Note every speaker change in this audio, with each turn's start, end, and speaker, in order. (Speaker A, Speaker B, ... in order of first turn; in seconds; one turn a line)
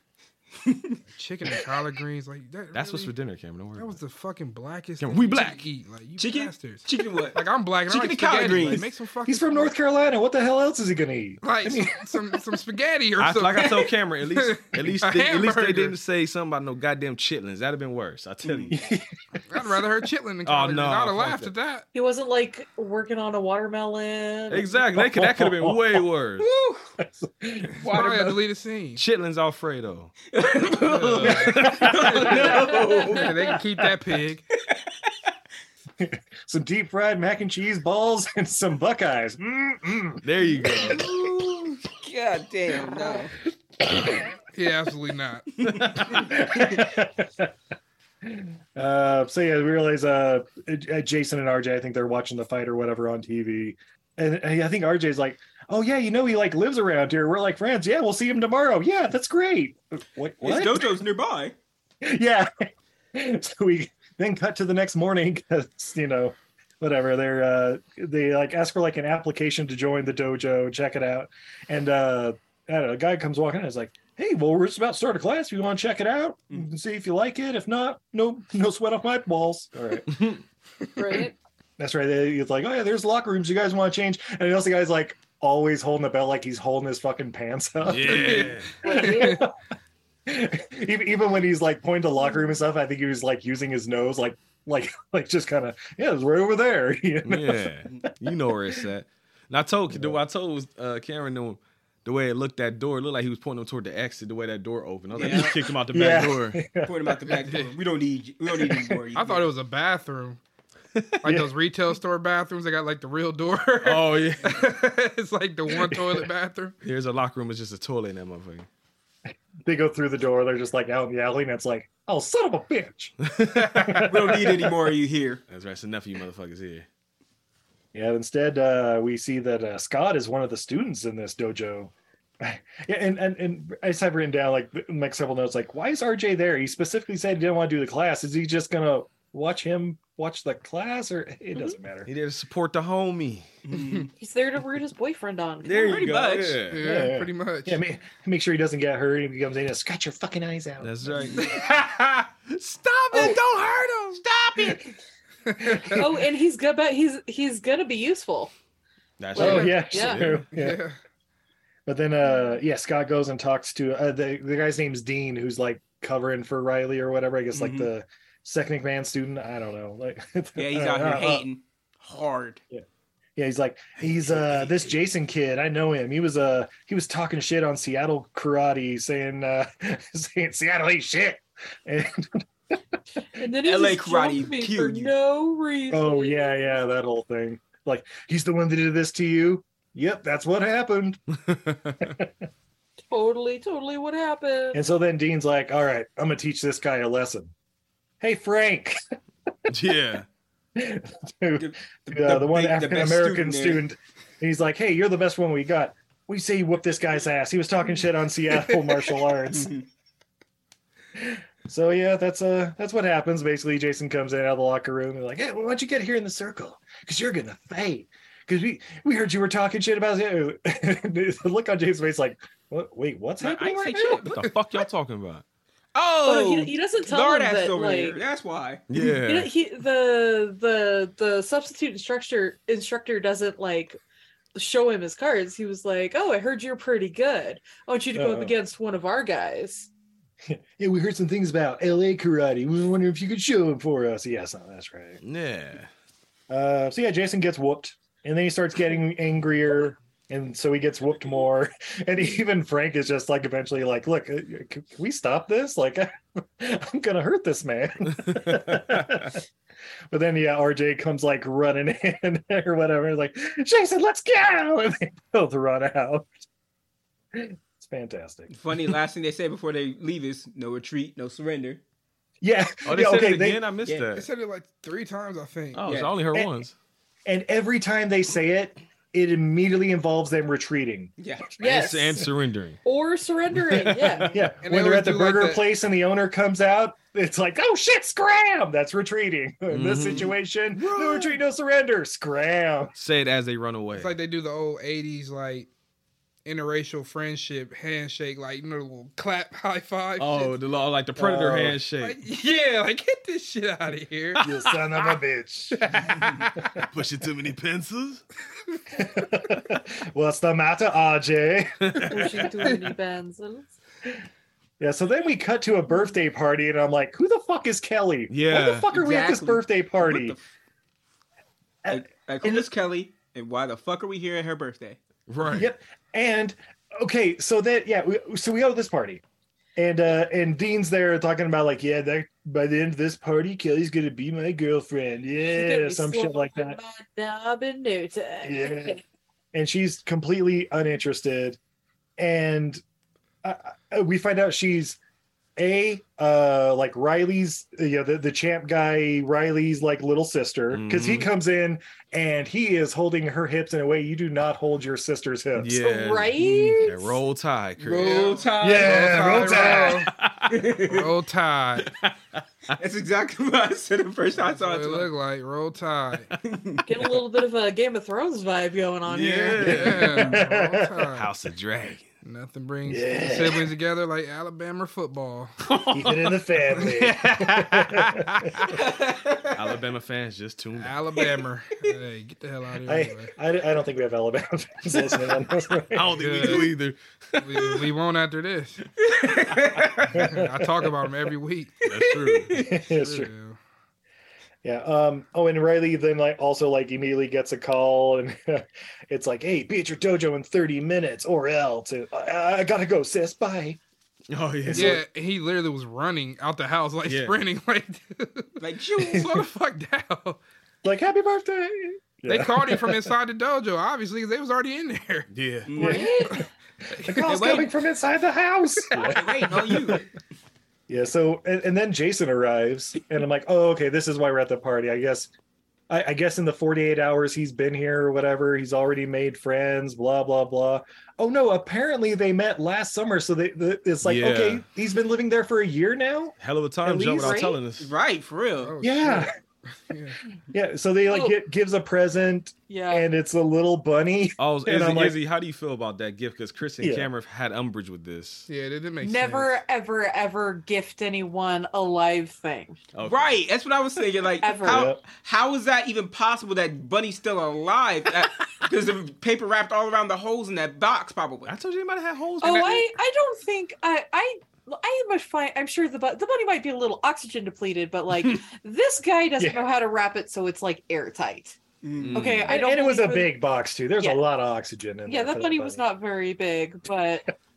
Speaker A: 0.7-1.0
Speaker B: 1.1-3.1
Speaker C: 2.7-4.0
Speaker B: 3.8-9.7
Speaker C: 5.0-5.7
Speaker A: 6.2-8.9
Speaker D: 9.2-12.2
Speaker B: 11.4-16.0
Speaker C: 13.2-18.8
Speaker D: 18.7-19.1
Speaker B: 19.5-21.9
Speaker C: 20.4-21.5
Speaker E: 21.9-24.7
Speaker C: 24.5-26.4
Speaker D: 24.9-26.1
Speaker A: 26.4-26.9
Speaker D: 27.0-27.9
Speaker A: 27.8-28.4
Speaker B: 27.9-29.1
Speaker C: 29.0-30.1
Speaker A: 30.3-33.6
Speaker B: 30.8-32.4
Speaker C: 31.2-32.5
Speaker D: 31.2-33.2
Speaker B: 33.1-34.4
Speaker D: 36.0-40.2
Speaker C: 40.2-41.1
Speaker A: 40.8-43.3
Speaker B: 44.5-45.5
Speaker C: 45.8-46.2
Speaker A: 45.8-46.3
Speaker D: 46.2-47.5
Speaker D: 48.2-61.0
Speaker A: 60.4-61.5
Speaker D: 62.0-80.1
Speaker C: 80.1-80.4
Speaker E: 81.0-81.3
Speaker D: 81.8-89.5
Speaker C: 87.8-88.8
Speaker B: 88.1-89.4
Speaker E: 88.8-89.4
Speaker D: 90.3-97.7
Speaker C: 97.2-106.6
Speaker D: 99.9-100.2
Speaker A: 105.1-105.6
Speaker D: 105.2-107.0
Speaker A: 106.8-109.5
Speaker B: 107.5-107.8
Speaker D: 108.7-109.0
Speaker B: 109.2-110.4
Speaker C: 111.0-111.2
Speaker B: 111.2-116.8
Speaker D: 111.2-111.5
Speaker C: 113.8-114.6
Speaker C: 116.8-118.7
Speaker D: 119.6-123.2
Speaker C: 123.2-124.1
Speaker D: 123.7-124.7
Speaker A: 124.0-125.4
Speaker C: 125.5-126.9
Speaker D: 127.9-142.1
Speaker C: 142.1-143.5
Speaker A: 143.7-144.1
Speaker E: 144.2-146.1
Speaker C: 145.6-147.0
Speaker A: 145.9-146.6
Speaker B: 146.7-147.8
Speaker D: 146.8-151.4
Speaker C: 150.8-151.6
Speaker B: 151.4-152.1
Speaker C: 152.6-153.4
Speaker B: 153.1-154.2
Speaker A: 154.3-154.8
Speaker B: 155.5-156.0
Speaker D: 155.6-156.1
Speaker E: 156.0-158.5
Speaker C: 159.2-160.5
Speaker E: 159.3-160.2
Speaker D: 159.4-160.8
Speaker B: 159.4-159.8
Speaker B: 160.4-161.0
Speaker D: 161.9-171.5
Speaker A: 167.5-167.9
Speaker A: 170.6-172.6
Speaker D: 173.4-182.4
Speaker E: 183.4-186.6
Speaker A: 183.6-185.1
Speaker D: 185.9-191.2
Speaker C: 191.4-192.1
Speaker D: 192.0-192.3
Speaker E: 193.1-194.8
Speaker D: 194.7-197.5
Speaker D: 198.2-199.0
Speaker C: 199.7-200.3
Speaker D: 200.8-209.7
Speaker A: 201.6-203.8
Speaker A: 209.5-209.8
Speaker D: 211.2-224.3
Speaker A: 223.4-224.4
Speaker C: 224.3-225.4
Speaker A: 225.9-228.8
Speaker E: 226.2-228.2
Speaker C: 228.9-229.5
Speaker E: 229.2-234.0
Speaker E: 234.6-239.9
Speaker D: 238.1-238.5
Speaker D: 240.4-245.2
Speaker C: 245.2-245.9
Speaker D: 246.5-259.4
Speaker D: 260.1-266.3
Speaker D: 267.3-268.5
Speaker A: 268.5-271.8
Speaker D: 272.4-273.6
Speaker C: 272.9-274.3
Speaker B: 274.1-275.9
Speaker C: 275.7-276.7
Speaker A: 275.8-276.1
Speaker D: 277.3-281.1
Speaker A: 281.2-281.5
Speaker E: 281.6-282.2
Speaker C: 281.6-282.8
Speaker D: 281.6-281.9
Speaker E: 282.8-284.5
Speaker C: 283.7-284.2
Speaker D: 283.7-292.9
Speaker B: 284.6-285.6
Speaker C: 289.7-291.4
Speaker C: 292.9-294.2
Speaker B: 293.9-295.7
Speaker B: 296.5-300.6
Speaker C: 300.2-302.2
Speaker D: 301.2-301.8
Speaker B: 302.0-304.5
Speaker D: 304.4-305.8
Speaker B: 305.8-306.8
Speaker C: 306.9-308.2
Speaker D: 308.9-312.5
Speaker C: 311.9-312.2
Speaker E: 312.1-313.7
Speaker D: 314.8-320.4
Speaker C: 318.3-318.9
Speaker A: 318.9-320.4
Speaker D: 321.9-322.7
Speaker A: 321.9-325.0
Speaker C: 325.3-325.7
Speaker D: 325.5-329.2
Speaker D: 329.8-336.8
Speaker E: 335.5-339.0
Speaker D: 338.4-339.0
Speaker D: 339.5-341.6
Speaker D: 342.2-342.8
Speaker D: 343.4-345.0
Speaker D: 345.6-355.8
Speaker C: 350.7-351.3
Speaker C: 355.6-358.3
Speaker E: 355.8-357.2
Speaker A: 357.8-359.8
Speaker B: 357.9-360.1
Speaker D: 358.6-360.1
Speaker C: 360.1-360.6
Speaker A: 360.5-361.1
Speaker B: 360.9-361.9
Speaker C: 361.8-362.7
Speaker A: 362.8-365.1
Speaker B: 364.4-366.3
Speaker A: 366.5-366.8
Speaker E: 366.9-370.0
Speaker C: 369.1-370.4
Speaker B: 369.6-371.3
Speaker D: 370.0-371.0
Speaker C: 371.1-372.1
Speaker B: 372.2-375.6
Speaker D: 372.9-373.7
Speaker C: 375.6-376.4
Speaker D: 375.9-378.5
Speaker B: 376.9-377.4
Speaker C: 377.2-378.0
Speaker A: 378.8-379.6
Speaker C: 379.6-381.0
Speaker B: 380.8-383.3
Speaker D: 382.9-386.5
Speaker C: 385.9-387.9
Speaker B: 386.1-386.8
Speaker B: 387.4-388.8
Speaker A: 389.0-390.1
Speaker B: 390.1-391.9
Speaker D: 390.1-390.5
Speaker C: 391.9-392.5
Speaker A: 392.1-392.6
Speaker D: 392.5-393.3
Speaker B: 392.8-393.6
Speaker D: 394.6-403.8
Speaker C: 404.3-405.0
Speaker D: 404.6-405.0
Speaker B: 404.7-410.4
Speaker C: 407.1-407.4
Speaker A: 408.6-409.5
Speaker D: 410.8-413.1
Speaker B: 412.3-415.3
Speaker C: 415.3-415.9
Speaker A: 415.7-416.2
Speaker D: 415.8-416.4
Speaker E: 415.8-416.4
Speaker D: 417.0-420.0
Speaker B: 417.1-417.6
Speaker A: 417.3-417.7
Speaker A: 418.9-420.1
Speaker D: 420.9-425.3
Speaker D: 425.9-436.4
Speaker C: 434.0-434.6
Speaker C: 436.4-437.9
Speaker E: 436.9-437.6
Speaker A: 437.8-438.7
Speaker B: 438.6-439.3
Speaker D: 438.8-439.3
Speaker B: 439.9-440.2
Speaker D: 440.5-445.2
Speaker E: 442.7-443.1
Speaker C: 444.4-448.5
Speaker D: 446.8-447.1
Speaker B: 448.5-449.6
Speaker E: 449.0-452.8
Speaker C: 452.9-453.4
Speaker A: 453.0-461.5
Speaker E: 454.4-454.9
Speaker D: 454.6-455.0
Speaker C: 461.5-462.9
Speaker E: 462.4-471.6
Speaker D: 469.4-469.7
Speaker A: 471.8-472.3
Speaker C: 472.0-472.6
Speaker E: 472.1-473.4
Speaker D: 472.4-475.8
Speaker E: 475.1-477.3